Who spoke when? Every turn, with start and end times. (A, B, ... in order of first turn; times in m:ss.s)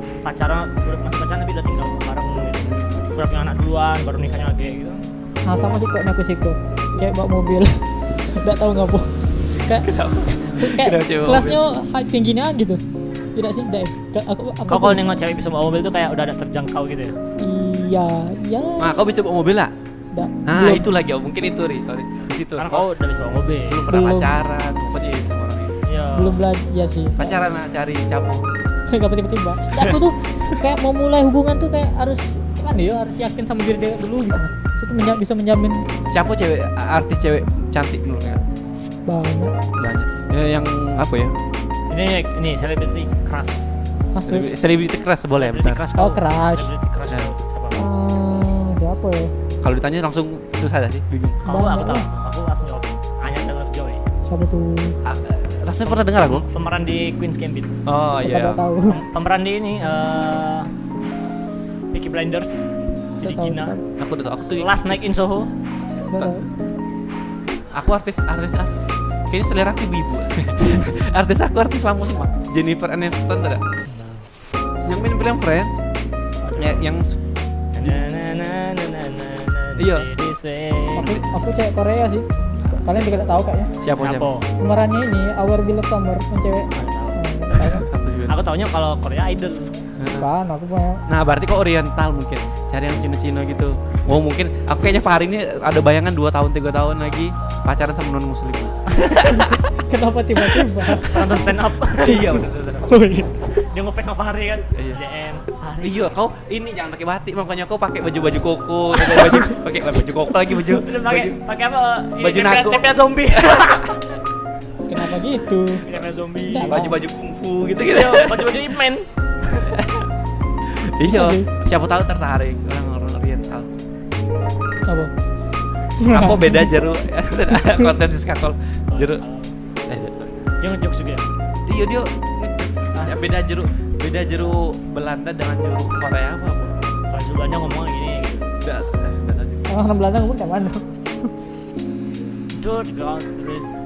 0:00.2-0:05.0 A
0:02.6-0:03.0 B
0:05.4-0:12.8 C
0:09.6-0:11.6 B
0:13.4-0:15.0 C
0:14.7-0:17.2 A
0:17.4-0:19.0 C
0:18.8-0:19.7 B
0:20.1-0:20.8 C
0:20.5-0:22.9 B
0:22.6-0:23.9 A
0:23.7-0:25.7 B
0:23.9-0:24.4 C
0:25.8-0:26.5 A
0:26.2-0:27.3 C
0:27.2-0:28.5 B
0:28.9-0:35.9 C
0:29.7-0:30.0 B
0:36.1-0:38.4 B
0:39.1-0:39.6 C
0:39.8-0:41.4 B
0:41.9-0:43.7 A
0:44.1-0:44.5 C
0:44.2-0:45.8 B
0:45.3-0:47.9 A
0:46.0-0:46.7 C
0:47.7-0:49.3 C
0:49.6-0:51.4 B
0:51.4-0:54.0 A
0:51.5-0:52.1 C
0:54.2-0:55.0 C
0:55.0-0:56.4 B
0:55.8-0:57.7 A
0:57.9-0:58.6 B
0:58.2-0:59.0 C
0:58.9-1:00.7 A
1:01.9-1:03.8 A
1:03.2-1:03.8 C
1:04.0-1:04.9 B
1:04.6-1:05.5 A
1:06.1-1:06.4 C
1:07.7-1:08.8 B
1:09.3-1:13.6 B
1:13.9-1:14.3 A
1:14.8-1:15.8 B
1:16.4-1:16.9 A
1:16.6-1:17.2 B
1:17.8-1:21.4 A
1:19.8-1:20.1 B
1:21.0-1:23.7 C
1:22.6-1:23.3 B
1:23.8-1:24.3 B
1:24.0-1:24.5 A
1:24.6-1:27.9 C
1:26.7-1:29.9 A
1:27.9-1:28.4 B
1:30.0-1:30.3 B
1:30.1-1:31.0 C
1:31.1-1:39.6 B
1:39.3-1:41.3 C
1:40.9-1:42.3 A
1:41.2-1:42.9 B
1:42.0-1:43.3 C
1:43.5-1:46.1 A
1:45.8-1:51.4 B
1:50.5-1:54.0 A
1:52.2-1:53.9 B
1:54.9-1:55.8 C
1:55.8-1:56.8 A
1:56.5-1:57.0 C
1:56.6-1:58.6 B
1:57.8-1:59.8 A
1:59.7-2:00.1 B
2:00.7-2:03.7 B
2:01.0-2:01.5 C
2:06.0-2:06.8 C
2:06.1-2:09.2 B
2:07.5-2:07.9 C
2:08.9-2:09.5 A
2:09.9-2:10.3 B
2:10.6-2:11.3 A
2:11.7-2:16.7 B
2:17.1-2:18.5 A
2:18.6-2:19.7 B
2:19.7-2:21.3 C
2:22.6-2:23.8 A